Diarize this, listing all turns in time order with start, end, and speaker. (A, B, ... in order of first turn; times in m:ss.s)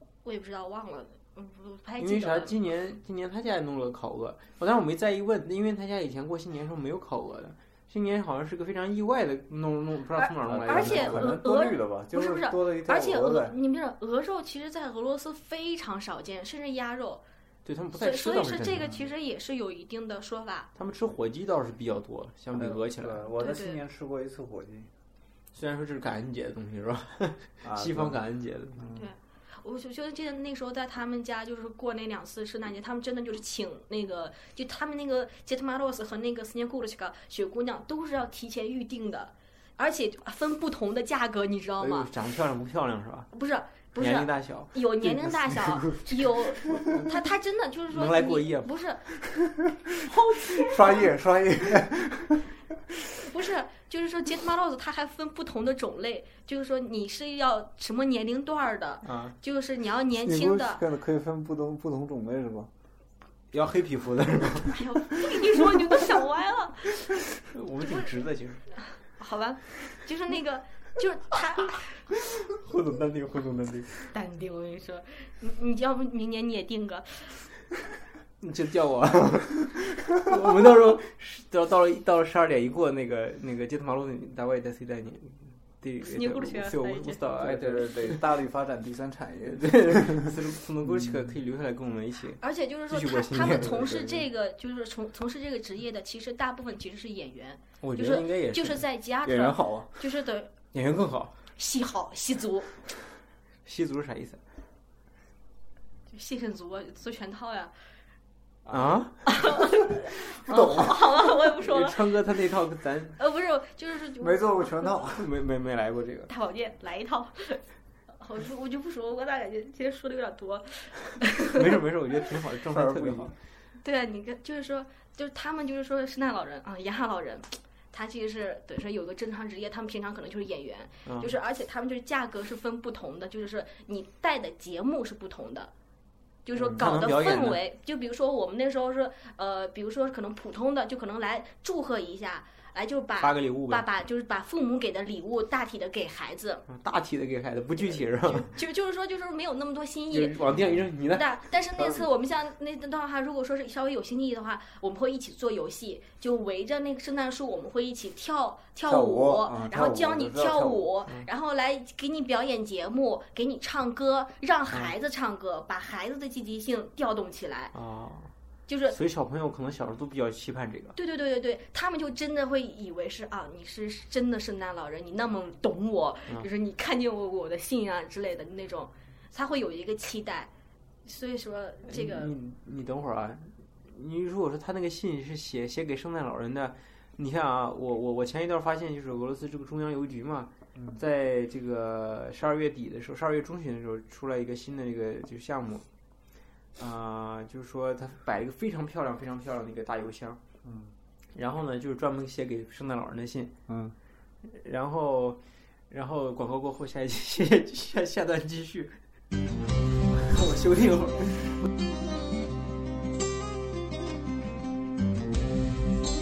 0:00.2-0:02.6 A
0:02.0-0:11.3 B
0:10.2-0:17.2 A
0:10.4-0:13.6 C
0:17.6-0:18.9 B
0:18.0-0:20.7 A
0:20.8-0:23.3 B
0:22.5-0:24.9 C
0:23.4-0:23.8 A
0:25.5-0:28.8 B
0:27.6-0:28.2 C
0:28.7-0:29.1 C
0:28.9-0:42.1 A
0:41.8-0:43.3 B
0:43.3-0:49.0 A
0:44.0-0:44.8 B
0:47.9-0:48.8 B
0:50.1-0:51.1 A
0:50.5-0:52.5 C
0:53.2-1:00.8 A
0:59.0-0:59.4 B
1:00.2-1:02.7 C
1:03.5-1:05.0 B
1:04.7-1:07.0 A
1:07.3-1:08.7 B
1:07.8-1:08.1 A
1:08.7-1:12.0 A
1:12.2-1:14.1 B
1:14.1-1:17.4 A
1:18.4-1:28.2 B
1:26.0-1:27.2 A
1:27.4-1:31.4 C
1:29.5-1:34.1 B
1:32.4-1:40.5 A
1:33.6-1:34.1 C
1:37.8-1:38.8 B
1:39.2-1:40.0 C
1:40.7-1:41.3 B
1:41.6-1:42.8 A
1:43.7-1:44.4 B
1:46.1-1:47.7 A
1:48.7-1:49.0 C
1:48.7-1:49.2 B
1:49.3-1:52.0 A
1:50.5-1:50.9 C
1:51.6-1:53.2 B
1:53.2-1:55.0 A
1:54.2-1:55.3 C
1:55.1-1:56.3 B
1:56.3-2:01.8 A
2:01.5-2:03.3 B
2:02.7-2:03.3 C
2:03.8-2:15.7 A
2:11.0-2:11.3 B
2:16.4-2:26.6 A
2:16.7-2:17.6 B
2:23.2-2:23.9 B
2:26.7-2:28.5 B
2:27.9-2:30.4 A
2:30.1-2:31.4 B
2:31.1-2:47.7 A
2:38.9-2:40.9 C
2:47.7-2:48.3 B
2:48.7-2:49.0 A
2:48.9-2:51.0 B
2:51.0-3:00.5 A
3:01.0-3:02.3 A
3:01.9-3:15.8 B
3:10.8-3:11.0 C
3:16.8-3:20.4 B
3:20.6-3:21.0 C
3:21.4-3:23.5 B
3:23.7-3:24.0 C
3:24.4-3:29.0 B
3:30.1-3:31.7 B